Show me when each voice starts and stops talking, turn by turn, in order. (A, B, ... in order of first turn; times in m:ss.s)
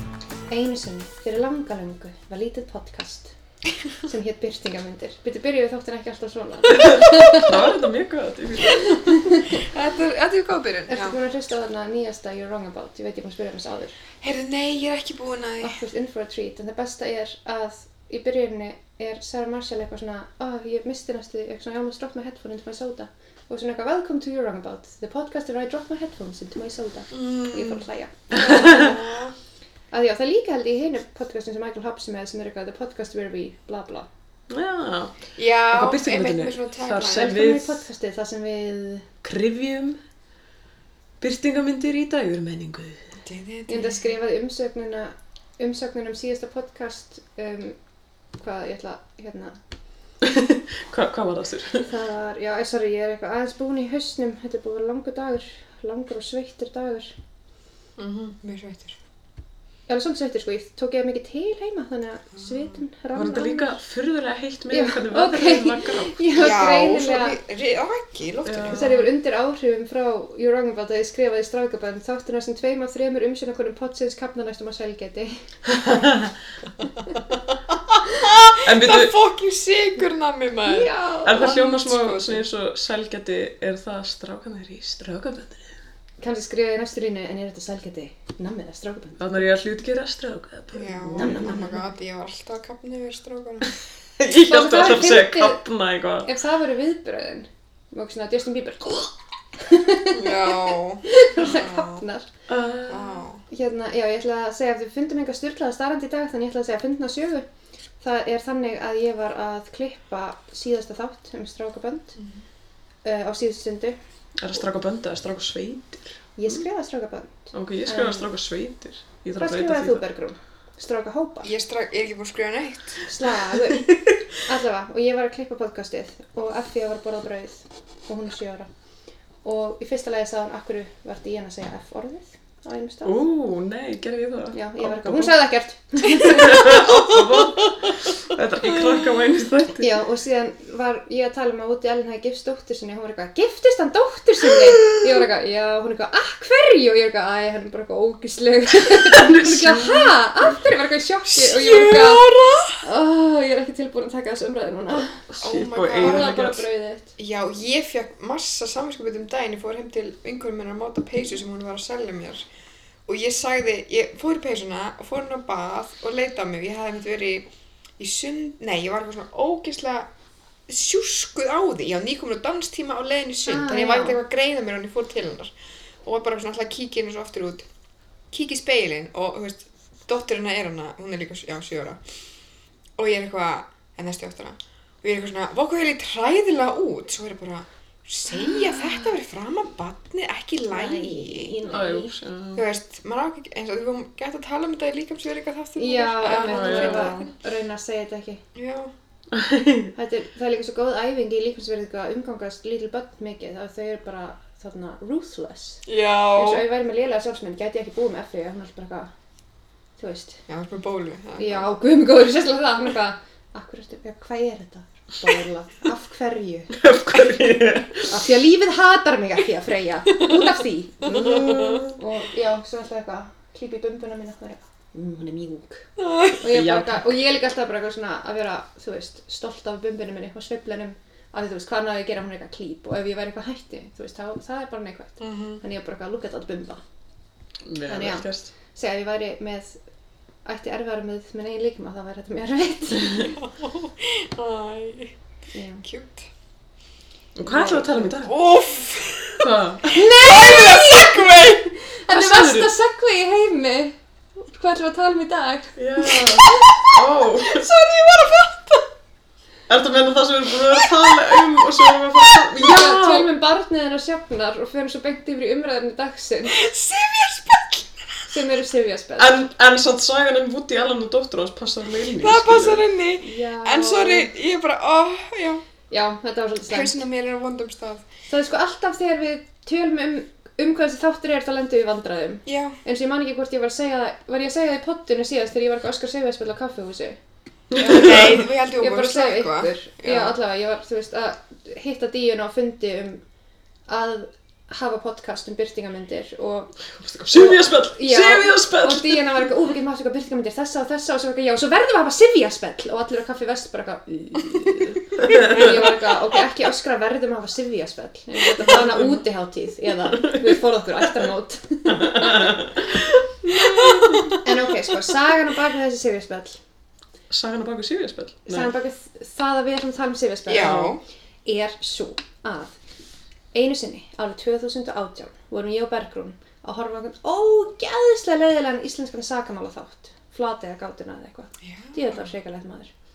0:00.5-0:03.3 A
0:04.0-0:07.6 A
0:06.7-0:09.3 B
0:08.7-0:09.6 A
0:09.5-0:11.2 C
0:10.9-0:14.0 A
0:14.2-0:15.8 C
0:15.6-0:28.7 A
0:28.3-0:29.4 C
0:28.4-0:29.0 B
0:29.9-0:34.1 A
0:34.5-0:37.8 B
0:35.4-0:37.4 C
0:37.1-0:39.1 A
0:39.2-0:40.0 B
0:41.2-0:43.2 B
0:43.2-0:44.0 C
0:43.7-0:47.8 A
0:48.4-0:49.5 A
0:50.2-0:51.9 B
0:51.9-0:57.1 A
0:58.0-0:59.0 C
0:59.9-1:03.8 A
1:03.2-1:06.3 B
1:04.7-1:07.4 A
1:06.4-1:08.9 C
1:08.4-1:09.1 B
1:08.7-1:15.3 A
1:15.7-1:16.3 B
1:18.2-1:22.5 C
1:18.5-1:19.2 B
1:20.7-1:21.8 A
1:21.2-1:25.7 B
1:26.2-1:29.5 A
1:29.2-1:31.6 B
1:30.7-1:33.7 C
1:31.2-1:31.8 A
1:34.2-1:36.3 B
1:34.4-1:35.6 A
1:36.2-1:42.3 A
1:40.1-1:42.0 C
1:42.5-1:43.3 B
1:42.9-1:43.4 C
1:43.5-1:47.4 A
1:48.0-1:52.2 A
1:53.0-1:54.0 A
1:54.4-1:56.6 B
1:56.4-1:58.3 A
1:57.5-2:00.0 B
1:59.4-2:01.5 A
2:01.4-2:03.0 C
2:03.0-2:03.9 A
2:03.8-2:04.1 B
2:04.4-2:08.7 A
2:09.4-2:13.2 A
2:13.0-2:15.3 B
2:14.5-2:16.9 A
2:16.2-2:20.0 B
2:16.7-2:17.5 C
2:18.7-2:19.2 C
2:19.8-2:32.2 A
2:29.1-2:30.1 B
2:31.3-2:32.8 C
2:32.8-2:35.2 A
2:35.3-2:36.6 B
2:35.4-2:36.4 C
2:35.9-2:37.1 A
2:37.2-2:42.5 C
2:43.1-2:50.1 C
2:50.7-2:57.7 C
2:53.5-2:54.2 A
2:58.3-3:02.0 C
3:03.0-3:11.6 C
3:08.3-3:09.1 A
3:10.7-3:12.1 A
3:11.7-3:12.7 B
3:12.6-3:17.3 C
3:15.8-3:18.4 A
3:16.3-3:17.3 B
3:18.6-3:18.9 C
3:19.3-3:19.9 B
3:20.0-3:29.1 A
3:25.9-3:26.6 C
3:30.0-3:30.4 A
3:30.5-3:31.6 C
3:31.4-3:36.7 A
3:36.7-3:38.1 B
3:38.1-3:45.9 A
3:41.0-3:41.8 C
3:41.1-3:42.0 B
3:46.0-3:46.4 C
3:46.4-3:56.8 A
3:46.4-3:47.2 B
3:55.2-3:55.6 C
3:57.6-3:58.5 B
3:57.8-3:59.8 A
4:00.4-4:03.3 A
4:03.3-4:05.1 C
4:05.5-4:05.8 A
4:05.8-4:06.3 C
4:07.4-4:08.3 B
4:07.5-4:07.8 A
4:07.5-4:09.5 C
4:09.4-4:10.1 B
4:09.9-4:15.8 A
4:10.2-4:11.8 C
4:12.1-4:12.7 B
4:15.8-4:17.7 B
4:16.1-4:18.9 C
4:19.7-4:23.3 B
4:20.7-4:22.4 C
4:22.6-4:26.6 A
4:26.5-4:28.3 C
4:28.3-4:29.4 A
4:29.2-4:32.8 B
4:32.2-4:35.6 C
4:33.2-4:34.3 A
4:35.9-4:37.0 A
4:36.7-4:38.1 C
4:38.3-4:47.2 A
4:42.5-4:42.8 C
4:47.7-4:48.4 B
4:47.8-4:53.2 A
4:47.8-4:50.4 C
4:53.9-4:56.8 A
4:57.0-4:59.6 B
4:57.3-5:12.7 A
5:05.2-5:05.9 B
5:08.5-5:09.2 B
5:10.1-5:10.6 B
5:11.9-5:14.4 B
5:13.4-5:16.6 A
5:17.3-5:18.7 B
5:18.5-5:20.9 A
5:20.5-5:21.0 C
5:20.6-5:20.9 B
5:21.4-5:22.7 A
5:23.5-5:32.9 A
5:31.6-5:32.2 C